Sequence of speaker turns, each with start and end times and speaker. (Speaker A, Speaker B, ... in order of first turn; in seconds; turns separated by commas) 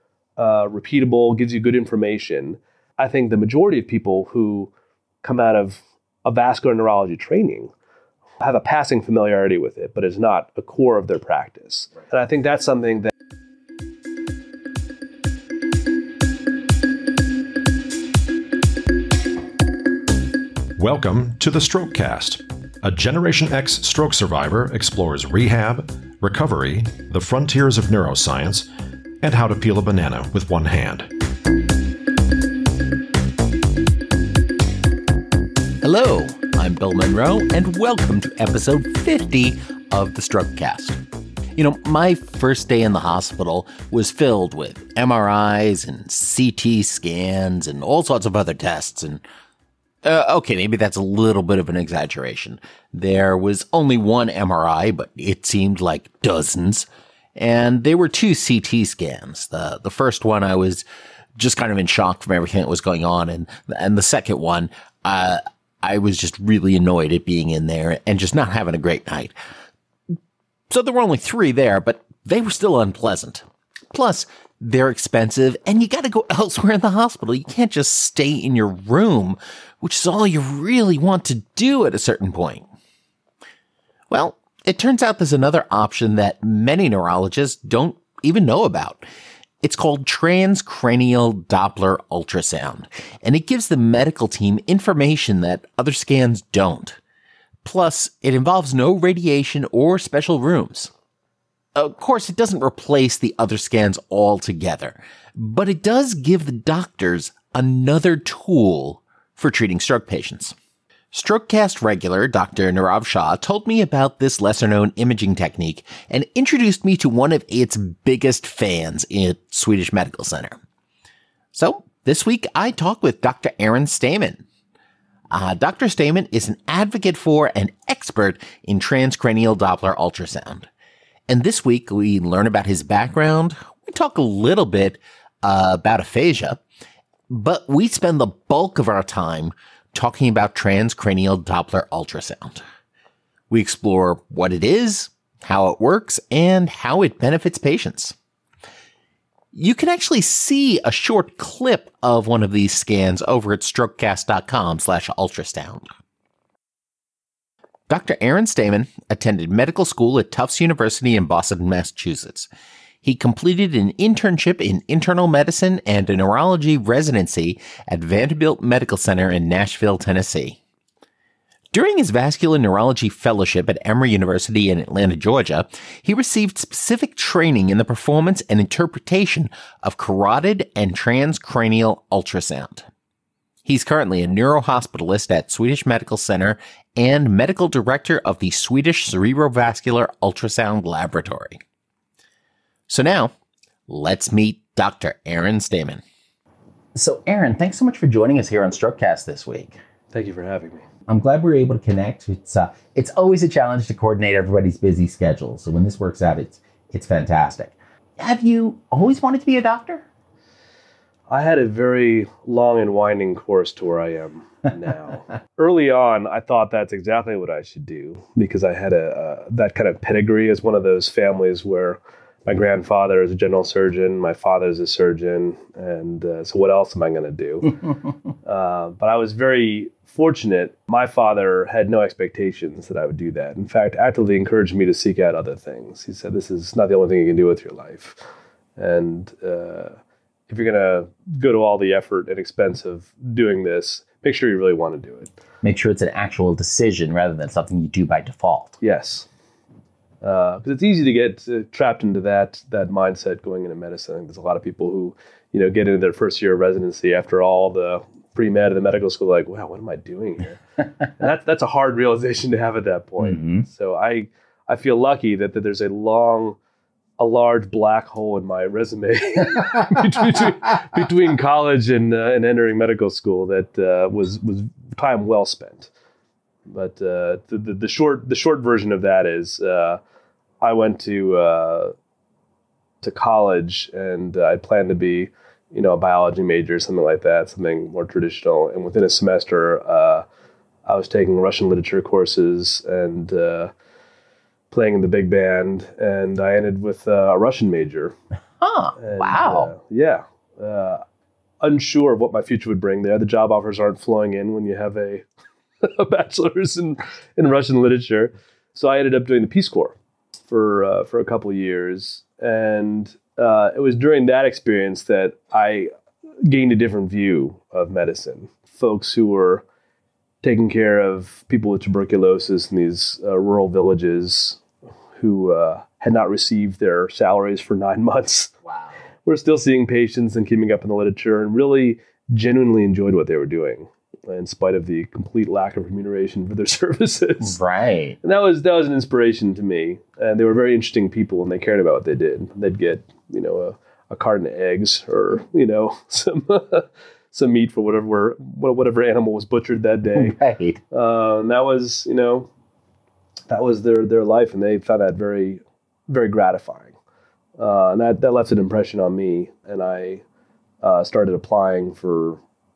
Speaker A: 0.4-4.7, Speaker A: 5.2-7.7, Speaker A: 8.4-13.1, Speaker B: 20.8-28.7, Speaker B: 29.2-31.1, Speaker C: 35.8-41.0, Speaker C: 41.5-49.2, Speaker C: 50.0-60.8, Speaker C: 61.4-69.3, Speaker C: 70.7-82.7, Speaker C: 84.1-89.0, Speaker C: 89.6-97.0, Speaker C: 97.6-100.9, Speaker C: 101.8-110.5, Speaker C: 111.1-120.6, Speaker C: 121.5-124.4, Speaker C: 125.3-130.7, Speaker C: 131.3-136.6, Speaker C: 137.3-142.6, Speaker C: 143.5-148.1, Speaker C: 149.5-155.8, Speaker C: 157.9-162.5, Speaker C: 163.0-170.6, Speaker C: 171.7-182.9, Speaker C: 183.6-191.6, Speaker C: 192.9-193.3, Speaker C: 193.9-196.0, Speaker C: 196.9-199.8, Speaker A: 200.1-200.8, Speaker C: 201.1-210.0, Speaker A: 211.3-227.9, Speaker A: 228.4-238.2, Speaker A: 238.8-240.0, Speaker A: 240.5-245.3, Speaker C: 245.6-248.8, Speaker A: 248.8-249.3, Speaker A: 250.2-266.6, Speaker C: 263.3-263.6, Speaker A: 267.2-275.9, Speaker A: 276.7-280.0, Speaker A: 280.6-281.9, Speaker A: 283.0-290.2, Speaker A: 290.9-293.7, Speaker A: 294.7-298.1, Speaker C: 298.6-299.7, Speaker A: 299.0-301.0, Speaker A: 301.6-305.2, Speaker A: 305.8-309.9, Speaker A: 310.5-315.9, Speaker A: 316.4-319.6, Speaker A: 320.4-324.6, Speaker A: 325.1-328.5, Speaker A: 329.2-337.6, Speaker C: 337.4-338.2, Speaker A: 338.2-350.4, Speaker C: 350.1-350.8, Speaker A: 350.9-352.5, Speaker A: 353.5-356.9, Speaker A: 357.6-360.2, Speaker A: 360.8-362.4